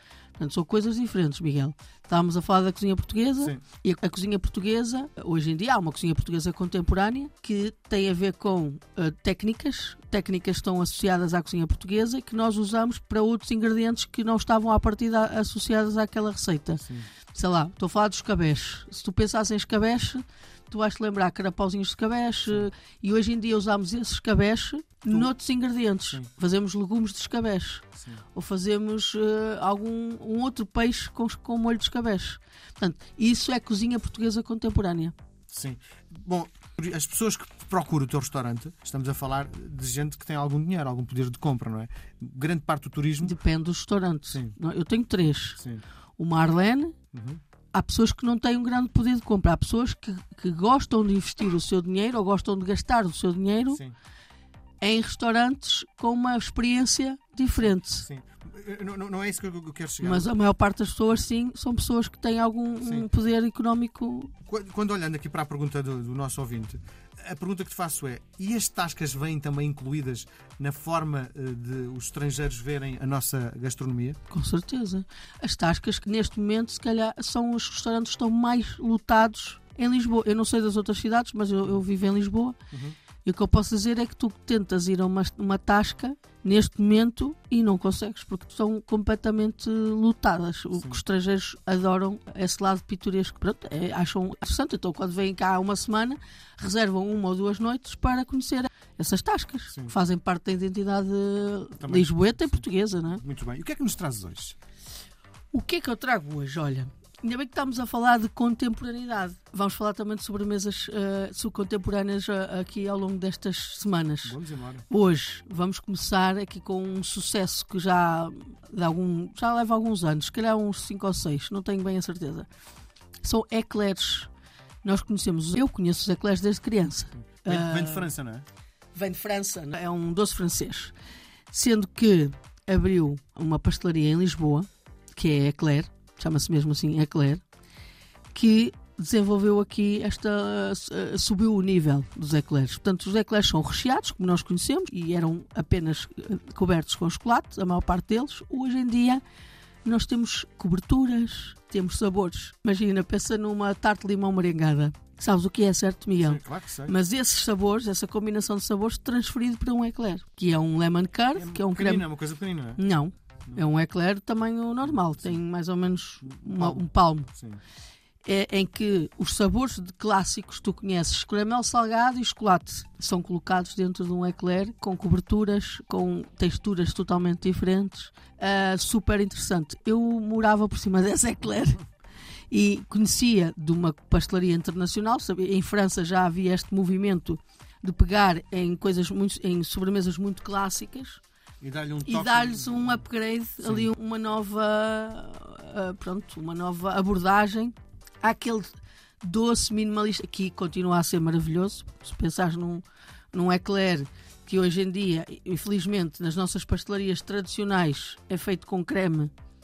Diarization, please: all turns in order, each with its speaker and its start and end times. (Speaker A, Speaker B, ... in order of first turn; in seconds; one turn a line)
Speaker A: 0.4-35.1
Speaker B: 16.7-17.1
Speaker B: 35.5-43.3
Speaker A: 43.2-45.6
Speaker A: 46.2-47.0
Speaker B: 47.1-47.4
Speaker A: 47.7-53.8
Speaker B: 53.7-54.0
Speaker A: 54.8-58.0
Speaker B: 57.6-60.3
Speaker A: 60.0-64.3
Speaker B: 64.4-74.2
Speaker A: 74.3-82.6
Speaker B: 82.7-83.0
Speaker A: 83.2-103.2
Speaker B: 101.8-104.5
Speaker A: 105.5-114.4
Speaker B: 114.2-114.8
Speaker A: 114.9-122.5
Speaker A: 123.2-124.3
Speaker A: 124.8-128.1
Speaker B: 127.3-128.5
Speaker A: 128.9-130.9
Speaker A: 131.5-137.4
Speaker A: 138.3-149.2
Speaker A: 149.8-162.1
Speaker B: 156.2-156.9
Speaker B: 161.3-162.8
Speaker A: 162.8-167.3
Speaker B: 164.8-165.4
Speaker B: 166.2-167.6
Speaker A: 168.2-181.8
Speaker A: 182.5-191.2
Speaker B: 191.6-193.1
Speaker A: 192.0-209.3
Speaker B: 193.6-193.9